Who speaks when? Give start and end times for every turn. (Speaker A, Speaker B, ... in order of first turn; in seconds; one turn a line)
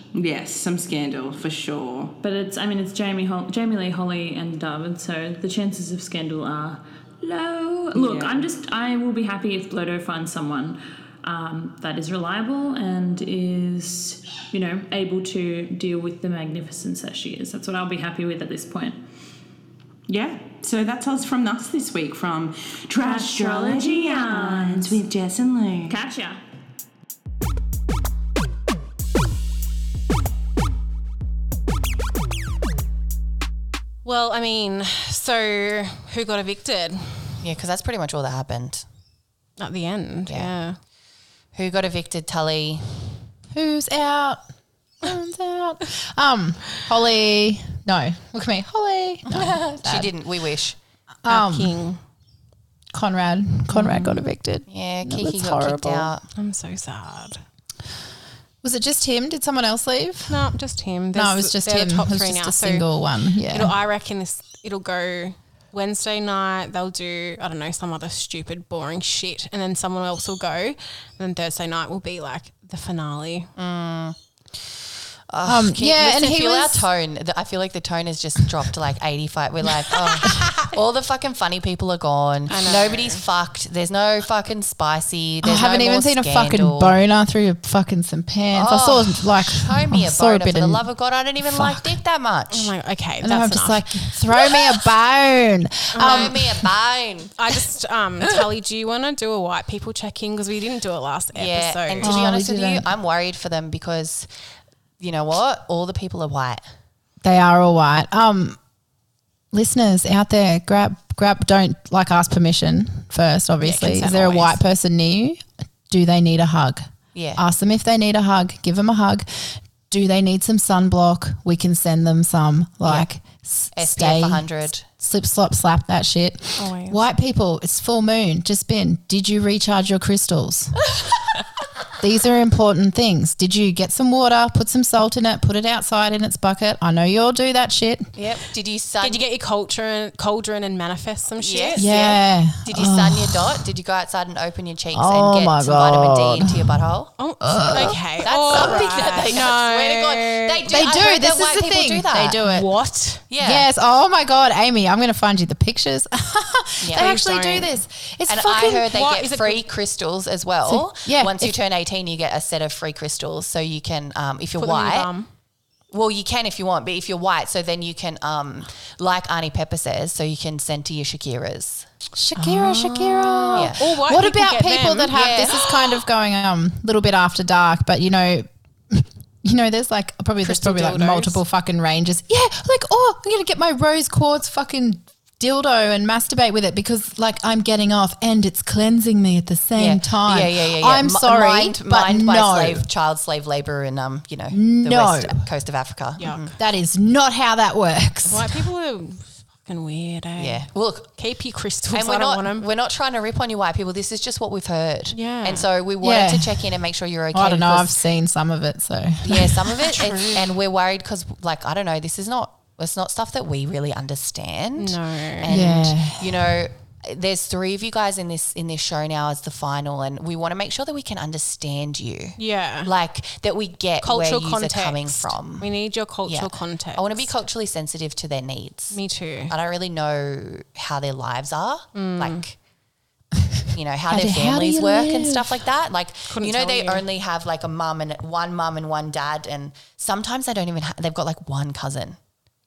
Speaker A: 0.1-2.1
Speaker B: 2.2-19.0
Speaker A: 7.9-8.5
Speaker A: 20.1-25.9
Speaker B: 23.0-25.0
Speaker B: 25.9-26.4
Speaker C: 34.0-37.4
Speaker D: 37.4-38.8
Speaker C: 39.6-40.8
Speaker D: 40.3-40.5
Speaker D: 41.5-43.1
Speaker E: 43.5-44.4
Speaker E: 45.0-50.1
Speaker D: 49.2-50.8
Speaker E: 51.2-51.9
Speaker C: 51.3-52.0
Speaker E: 52.9-56.1
Speaker C: 53.7-54.2
Speaker D: 54.7-56.3
Speaker C: 56.4-57.4
Speaker E: 58.6-60.5
Speaker C: 60.3-62.9
Speaker E: 61.1-63.8
Speaker C: 63.5-73.5
Speaker D: 73.5-74.2
Speaker D: 75.3-87.0
Speaker E: 75.4-76.9
Speaker E: 80.2-80.5
Speaker C: 82.5-83.2
Speaker E: 85.4-90.9
Speaker D: 88.5-92.7
Speaker E: 91.4-92.0
Speaker C: 92.5-94.2
Speaker E: 93.2-96.7
Speaker C: 95.9-96.3
Speaker D: 96.0-97.3
Speaker C: 97.3-102.1
Speaker D: 101.3-104.3
Speaker E: 102.0-102.9
Speaker D: 105.0-106.6
Speaker E: 107.2-108.6
Speaker E: 109.5-116.8
Speaker C: 113.6-114.6
Speaker D: 117.1-117.4
Speaker E: 117.3-130.8
Speaker D: 123.7-124.8
Speaker C: 126.6-127.1
Speaker E: 132.0-138.1
Speaker D: 138.2-139.2
Speaker C: 139.0-142.0
Speaker D: 141.4-152.4
Speaker E: 141.8-143.7
Speaker E: 144.9-149.0
Speaker C: 147.2-150.7
Speaker E: 150.7-152.7
Speaker C: 152.4-153.2
Speaker D: 153.3-153.7
Speaker E: 153.4-159.0
Speaker D: 156.8-157.1
Speaker C: 156.9-157.7
Speaker D: 158.3-165.1
Speaker C: 158.8-159.6
Speaker E: 160.6-161.6
Speaker C: 164.6-165.3
Speaker D: 165.9-171.9
Speaker E: 172.2-192.9
Speaker C: 172.4-175.5
Speaker D: 173.5-173.8
Speaker D: 175.1-175.7
Speaker C: 180.4-181.4
Speaker D: 189.8-196.5
Speaker E: 194.5-195.5
Speaker C: 196.2-196.5
Speaker E: 196.6-198.6
Speaker C: 198.3-200.6
Speaker D: 200.3-201.1
Speaker C: 201.2-202.7
Speaker D: 201.9-208.0
Speaker C: 205.1-205.7
Speaker E: 206.0-206.8
Speaker E: 207.3-209.9
Speaker D: 209.2-232.5
Speaker C: 209.8-210.4
Speaker C: 214.8-215.5
Speaker E: 215.5-216.5
Speaker C: 222.4-222.9
Speaker C: 224.0-227.3
Speaker C: 228.9-229.5
Speaker C: 231.9-232.5
Speaker D: 233.7-242.2
Speaker E: 234.1-235.6
Speaker C: 236.3-237.0